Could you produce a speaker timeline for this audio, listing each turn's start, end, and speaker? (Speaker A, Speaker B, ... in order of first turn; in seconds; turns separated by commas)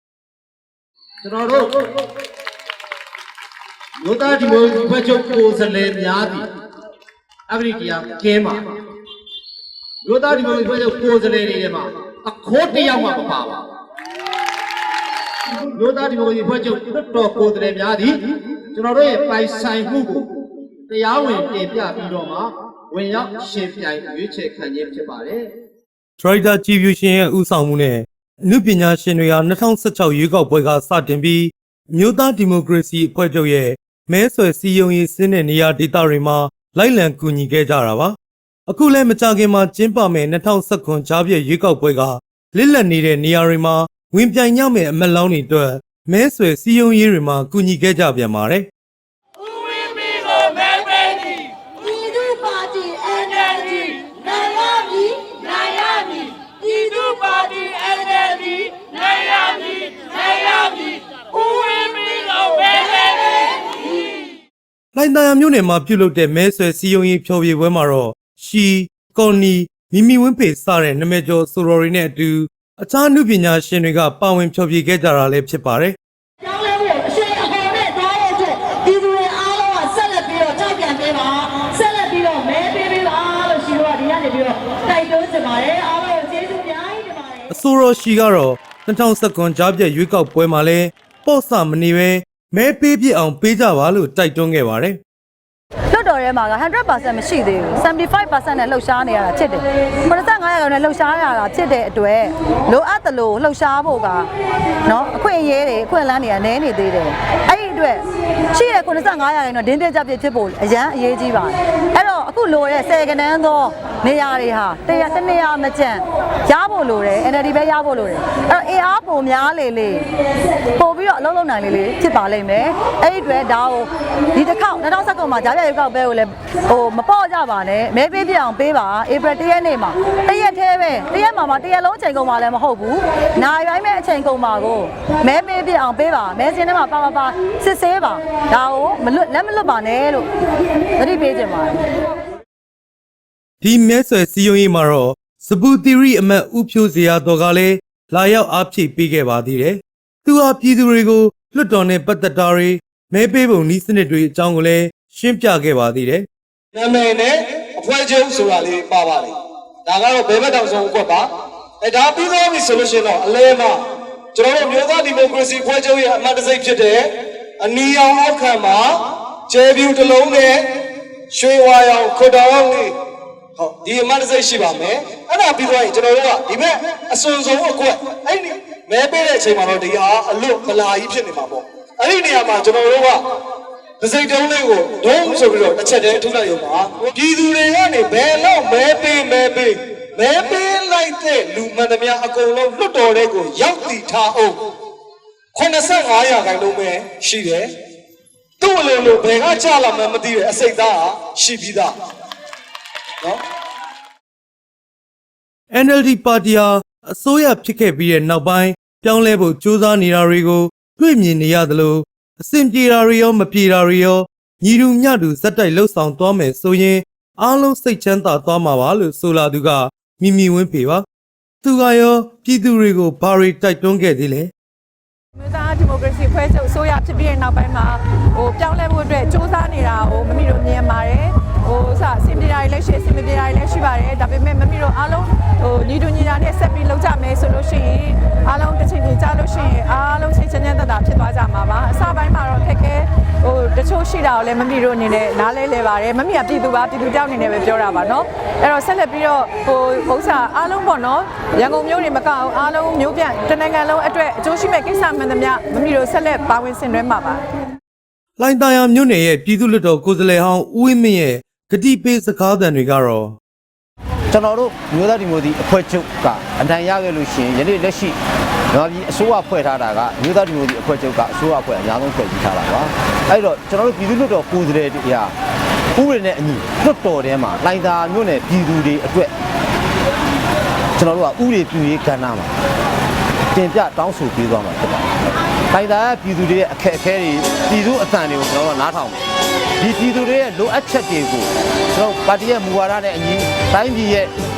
Speaker A: 1.2-1.6, Speaker A: 4.0-6.4, Speaker A: 7.5-8.6, Speaker A: 10.1-13.6, Speaker A: 15.8-18.1, Speaker A: 18.7-20.2, Speaker A: 20.9-25.4, Speaker B: 26.2-38.1, Speaker B: 38.7-48.7, Speaker C: 49.5-64.2, Speaker D: 51.9-53.7, Speaker D: 54.4-54.9, Speaker D: 57.3-57.9, Speaker B: 64.9-76.0, Speaker C: 76.5-87.4, Speaker D: 76.6-81.3, Speaker D: 81.9-83.3, Speaker D: 84.9-86.7, Speaker B: 87.5-95.0, Speaker D: 95.9-104.3, Speaker D: 104.8-120.1, Speaker D: 120.7-140.3, Speaker D: 140.9-141.9, Speaker B: 143.6-156.3, Speaker E: 156.7-173.0, Speaker E: 173.6-183.3, Speaker E: 184.0-194.7, Speaker E: 195.5-197.7, Speaker E: 198.6-202.0, Speaker B: 205.7-221.0, Speaker B: 221.6-224.5, Speaker F: 225.4-257.4, Speaker B: 258.4-263.4, Speaker G: 264.3-268.2, Speaker G: 268.7-275.3, Speaker G: 275.9-279.3, Speaker G: 280.9-282.5, Speaker G: 283.5-285.1, Speaker G: 285.7-289.2, Speaker G: 289.8-294.3